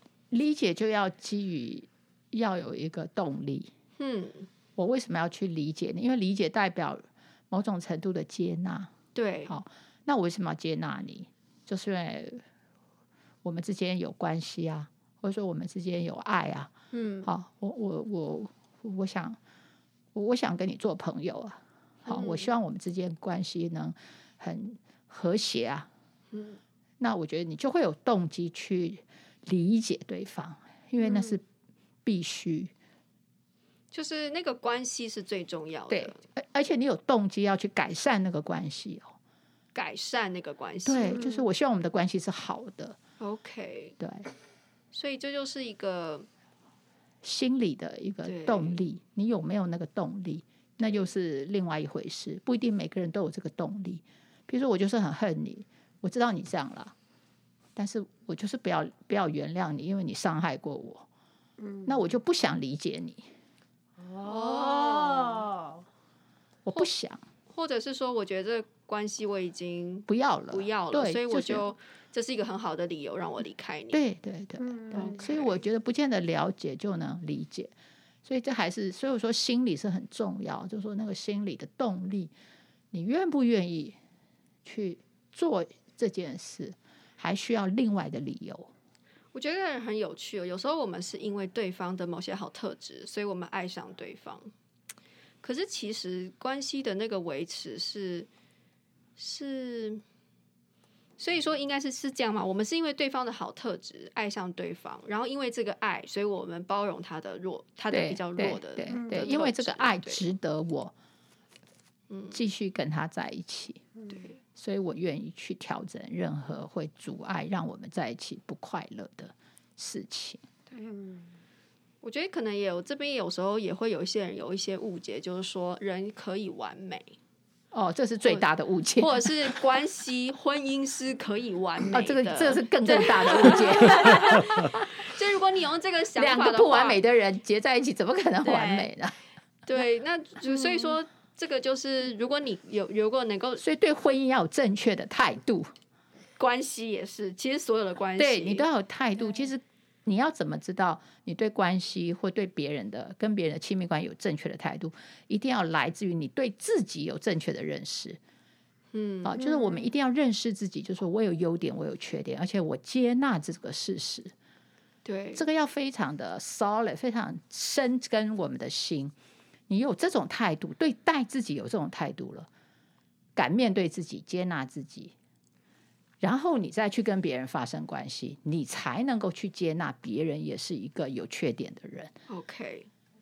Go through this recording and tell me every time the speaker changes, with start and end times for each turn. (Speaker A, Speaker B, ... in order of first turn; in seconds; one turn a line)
Speaker A: 0.3-3.7
Speaker B: 4.0-4.5
Speaker A: 4.8-8.9
Speaker B: 9.2-9.6
Speaker A: 9.5-12.4
Speaker A: 13.4-16.7
Speaker B: 16.9-17.3
Speaker A: 17.2-19.4
Speaker A: 20.1-25.9
Speaker B: 22.1-22.5
Speaker B: 26.3-26.6
Speaker A: 27.0-31.4
Speaker B: 31.0-31.4
Speaker A: 32.0-32.7
Speaker B: 33.9-36.2
Speaker A: 35.9-39.1
Speaker B: 39.8-41.3
Speaker A: 40.9-43.0
Speaker B: 43.2-44.0
Speaker A: 44.0-44.3
Speaker B: 44.9-46.3
Speaker A: 47.2-56.9
Speaker B: 48.2-48.8
Speaker B: 50.8-51.1
Speaker A: 57.8-61.1
Speaker C: 61.6-62.0
Speaker A: 61.9-63.2
Speaker C: 64.0-65.8
Speaker B: 64.2-65.5
Speaker A: 66.7-67.2
Speaker B: 67.5-74.0
Speaker A: 70.1-71.6
Speaker A: 73.9-77.7
Speaker C: 74.6-75.2
Speaker B: 74.9-75.6
Speaker A: 78.2-82.3
Speaker A: 82.9-84.0
Speaker A: 84.7-88.7
Speaker B: 89.3-94.5
Speaker B: 95.4-98.3
Speaker B: 99.2-100.0
Speaker B: 101.2-110.2
Speaker A: 107.9-110.9
Speaker C: 108.9-109.4
Speaker B: 112.1-112.4
Speaker A: 112.3-113.8
Speaker B: 114.1-114.4
Speaker A: 114.5-120.4
Speaker C: 120.9-121.2
Speaker B: 122.0-127.2
Speaker A: 127.7-129.5
Speaker B: 129.0-137.0
Speaker A: 131.9-134.8
Speaker C: 133.8-134.4
Speaker A: 136.2-139.2
Speaker C: 138.4-138.9
Speaker B: 139.7-143.6
Speaker C: 140.5-140.9
Speaker A: 143.6-145.7
Speaker B: 146.4-148.7
Speaker A: 148.2-158.2
Speaker B: 158.9-159.5
Speaker A: 159.2-164.3
Speaker B: 165.1-165.4
Speaker A: 165.3-169.1
Speaker A: 169.7-172.5
Speaker A: 173.4-175.1
Speaker A: 176.2-182.1
Speaker B: 182.3-182.9